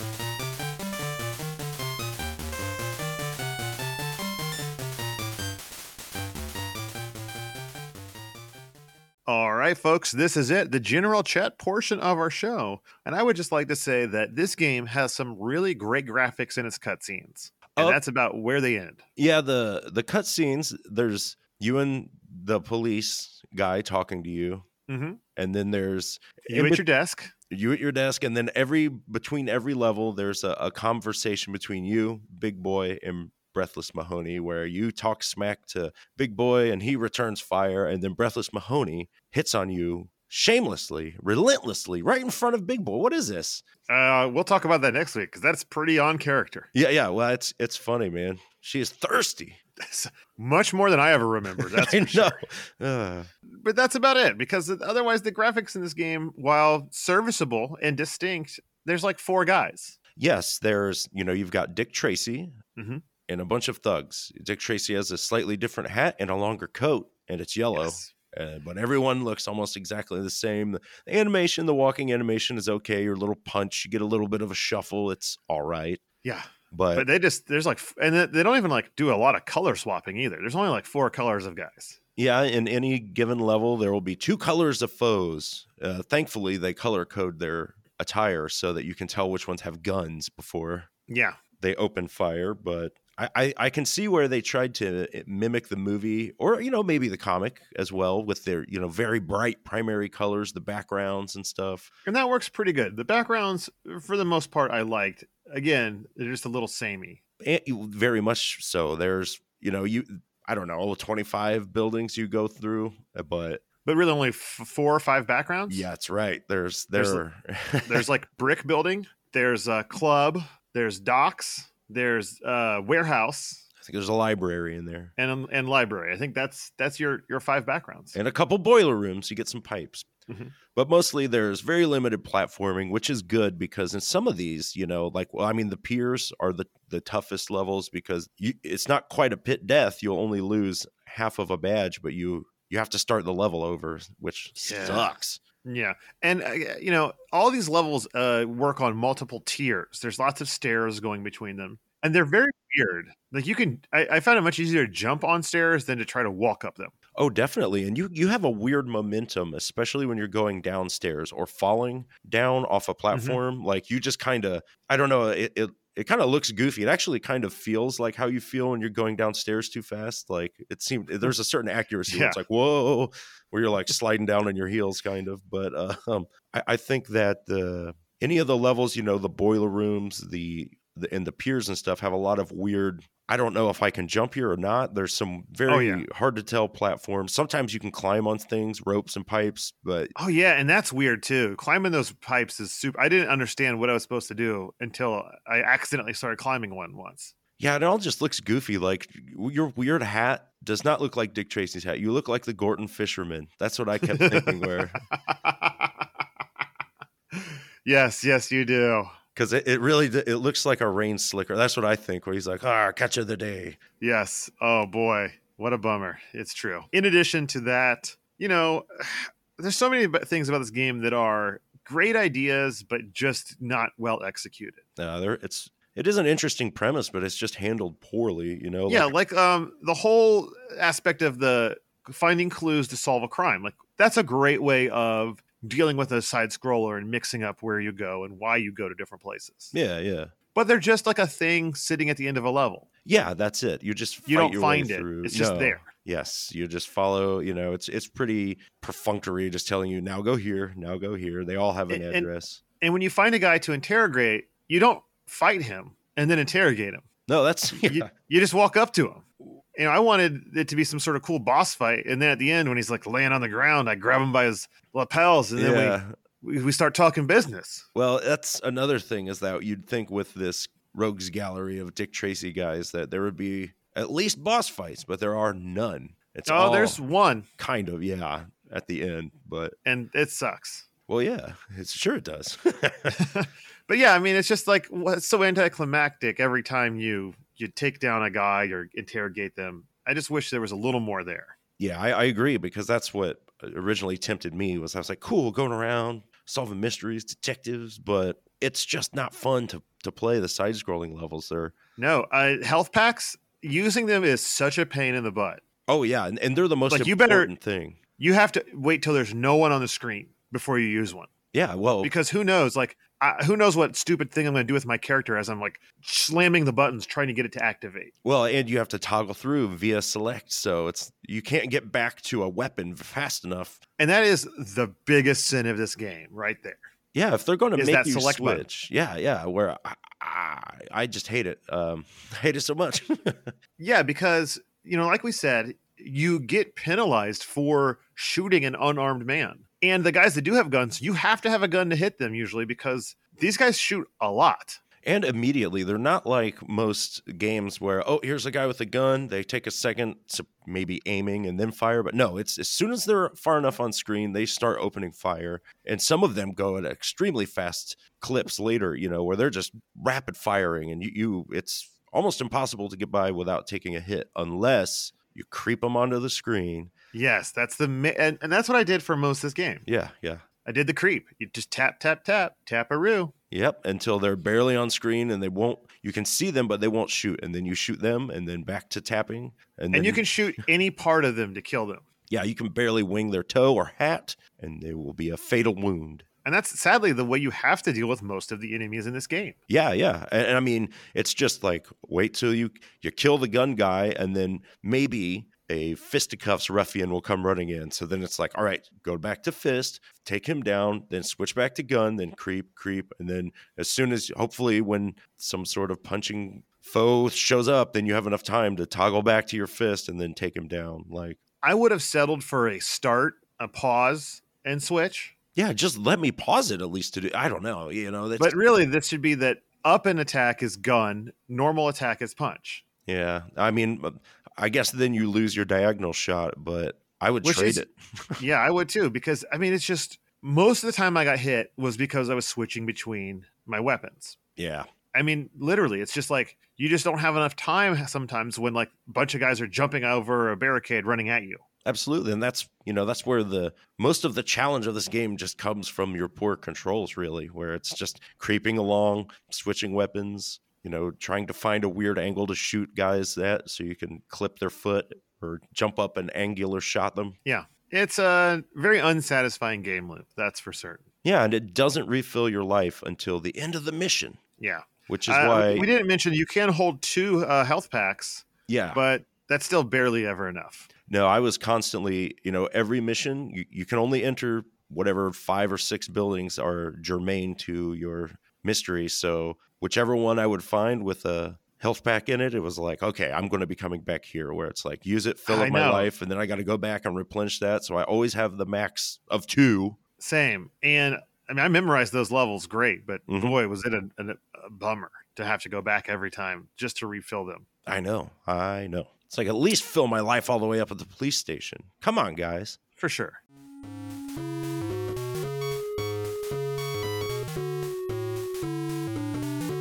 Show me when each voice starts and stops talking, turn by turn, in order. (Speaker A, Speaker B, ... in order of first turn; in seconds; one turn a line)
Speaker A: 9.2-19.0
Speaker B: 17.7-18.0
Speaker B: 19.2-24.6
Speaker A: 24.9-25.2
Speaker B: 25.4-26.8
Speaker A: 26.5-27.3
Speaker B: 27.5-43.6
Speaker A: 43.9-46.7
Speaker B: 46.7-49.6
Speaker A: 49.8-52.4
Speaker B: 51.6-53.3
Speaker A: 53.5-60.0
Speaker B: 60.1-62.5
Speaker A: 62.8-63.0
Speaker B: 63.3-76.0
Speaker A: 67.7-68.1
Speaker A: 76.2-82.0
Speaker B: 76.7-77.1
Speaker B: 82.2-90.9
Speaker A: 91.1-91.4
Speaker B: 91.6-101.9
Speaker A: 102.0-107.2
Speaker B: 107.4-113.6
Speaker A: 113.8-115.9
Speaker B: 115.7-118.0
Speaker A: 116.9-117.2
Speaker A: 117.8-123.7
Speaker B: 123.8-125.1
Speaker A: 125.2-128.2
Speaker B: 128.1-130.1
Speaker A: 130.3-130.5
Speaker B: 130.7-145.4
Speaker A: 144.6-156.9
Speaker B: 157.1-190.1
Speaker A: 163.1-163.4
Speaker A: 172.1-172.4
Speaker A: 185.7-186.0
Speaker A: 190.2-197.3
Speaker B: 197.6-205.0
Speaker A: 204.0-206.2
Speaker A: 207.3-209.1
Speaker B: 209.3-213.8
Speaker A: 214.0-224.8
Speaker B: 225.0-229.1
Speaker A: 228.9-239.7
Speaker B: 239.7-240.3
Speaker A: 240.5-242.8
Speaker B: 243.0-252.6
Speaker A: 244.3-245.8
Speaker A: 251.9-252.3
Speaker A: 252.8-257.0
Speaker B: 257.3-258.1
Speaker A: 257.8-267.9
Speaker B: 265.6-266.1
Speaker B: 267.9-277.0
Speaker A: 276.5-277.5
Speaker B: 277.6-279.8
Speaker A: 279.8-280.9
Speaker B: 281.1-283.2
Speaker A: 283.1-291.6
Speaker B: 291.8-301.7
Speaker A: 302.0-305.6
Speaker B: 305.9-308.0
Speaker A: 306.9-307.5
Speaker A: 308.2-311.3
Speaker B: 311.5-312.1
Speaker A: 312.0-318.1
Speaker B: 318.2-323.8
Speaker A: 324.0-326.8
Speaker B: 327.1-333.5
Speaker A: 327.8-328.6
Speaker A: 333.8-344.8
Speaker B: 345.0-366.9
Speaker A: 367.1-369.8
Speaker B: 369.8-370.4
Speaker A: 370.6-373.3
Speaker B: 373.5-380.2
Speaker A: 379.9-382.0
Speaker B: 382.3-386.2
Speaker A: 386.4-389.6
Speaker B: 389.7-411.4
Speaker A: 411.6-415.3
Speaker B: 415.6-418.6
Speaker A: 418.4-422.8
Speaker B: 423.1-428.4
Speaker A: 427.4-427.8
Speaker A: 428.4-434.4
Speaker B: 434.6-434.9
Speaker A: 435.1-441.6
Speaker B: 441.8-457.4
Speaker A: 457.4-461.0
Speaker B: 461.2-464.4
Speaker A: 464.6-470.9
Speaker B: 465.1-465.9
Speaker B: 468.7-469.0
Speaker B: 471.1-490.0
Speaker A: 485.4-486.1
Speaker A: 490.2-497.6
Speaker B: 493.3-493.6
Speaker B: 497.9-502.8
Speaker A: 503.0-503.4